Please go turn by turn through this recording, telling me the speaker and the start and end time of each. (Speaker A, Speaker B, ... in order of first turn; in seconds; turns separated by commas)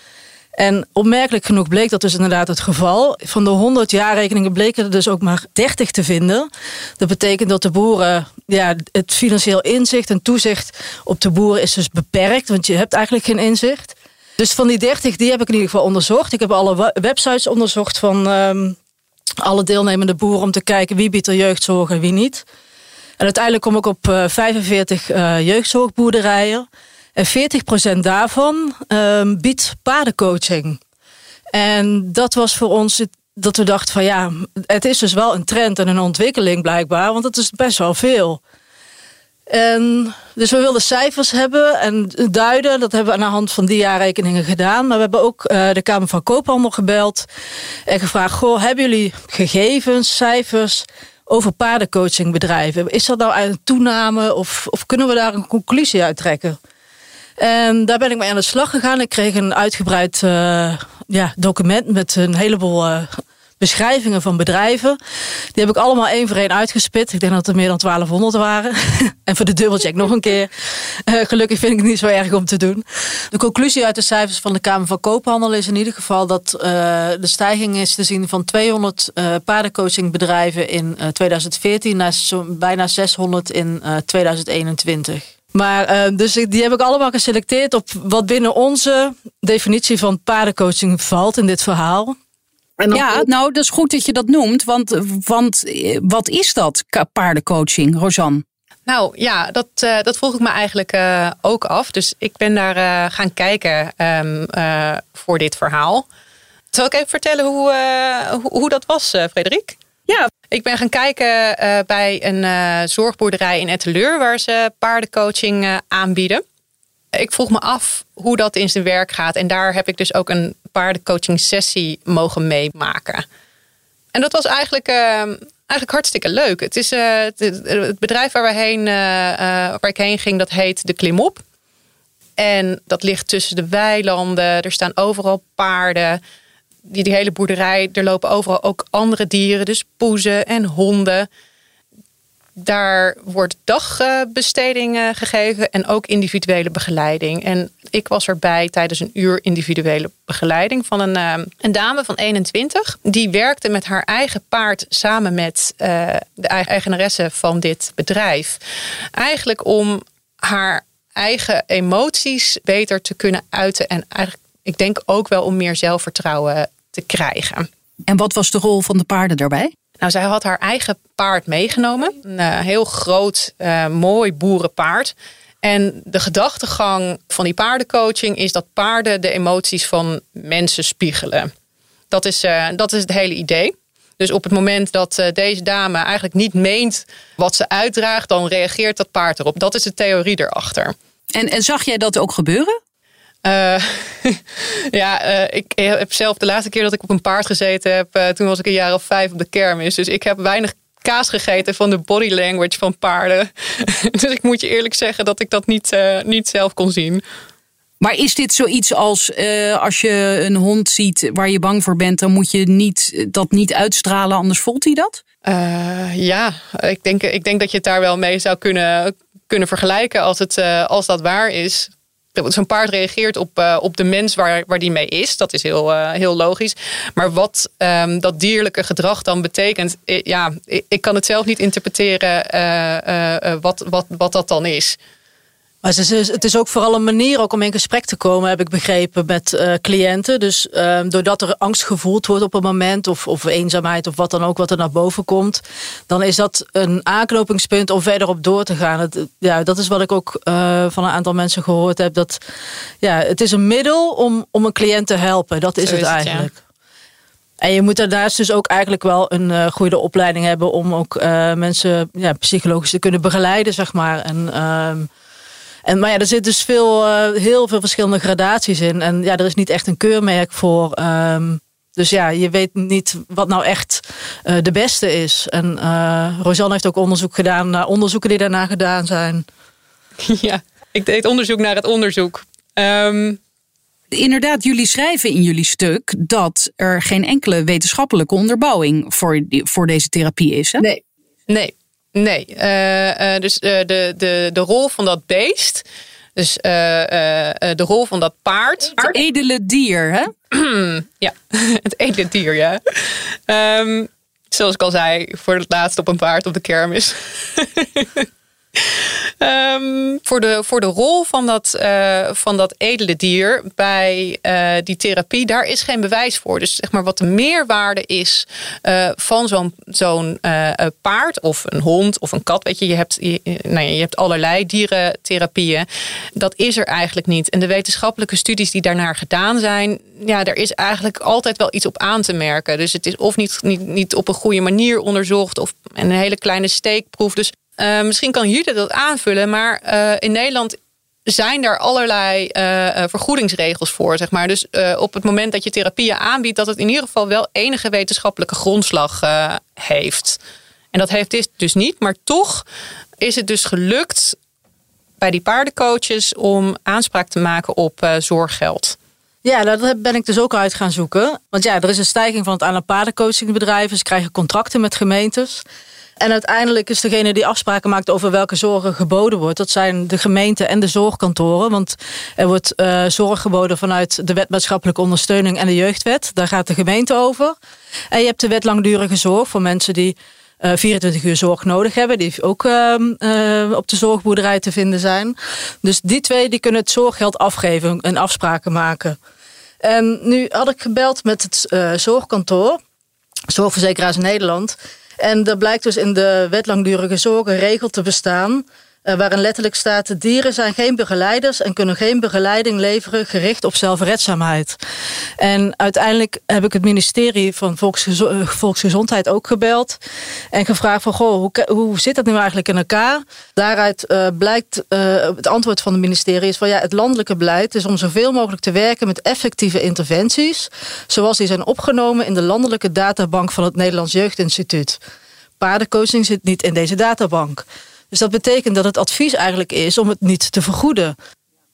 Speaker A: 0.6-18.8, Speaker A: 19.4-22.4, Speaker A: 23.2-30.8, Speaker A: 31.5-38.4, Speaker A: 39.5-47.3, Speaker A: 47.9-56.6, Speaker A: 57.4-65.0, Speaker A: 65.5-92.2, Speaker A: 92.8-93.2, Speaker B: 92.9-98.4, Speaker C: 98.9-106.1, Speaker C: 106.7-109.8, Speaker C: 110.5-116.4, Speaker C: 117.1-123.2, Speaker C: 124.1-131.4, Speaker C: 132.4-136.2, Speaker C: 136.8-141.3, Speaker C: 142.6-158.6, Speaker C: 159.1-167.7, Speaker B: 168.1-169.7, Speaker C: 170.0-181.5, Speaker C: 182.1-190.9, Speaker B: 191.3-192.8, Speaker C: 193.4-207.2, Speaker B: 208.0-215.2, Speaker C: 215.4-235.0, Speaker A: 235.8-252.4, Speaker A: 253.0-256.6, Speaker C: 255.8-256.5, Speaker A: 257.6-265.1, Speaker A: 265.9-279.4, Speaker C: 280.2-283.4, Speaker B: 284.1-290.8, Speaker C: 290.8-295.8, Speaker C: 296.4-299.2, Speaker B: 299.0-300.3, Speaker C: 300.5-350.4, Speaker C: 350.9-352.6, Speaker C: 353.2-354.4, Speaker C: 355.2-359.0, Speaker A: 359.4-365.6, Speaker A: 366.2-377.6, Speaker A: 378.1-389.2, Speaker A: 389.8-392.8, Speaker A: 393.5-404.8, Speaker A: 405.4-410.0, Speaker A: 410.5-425.0, Speaker A: 425.6-431.1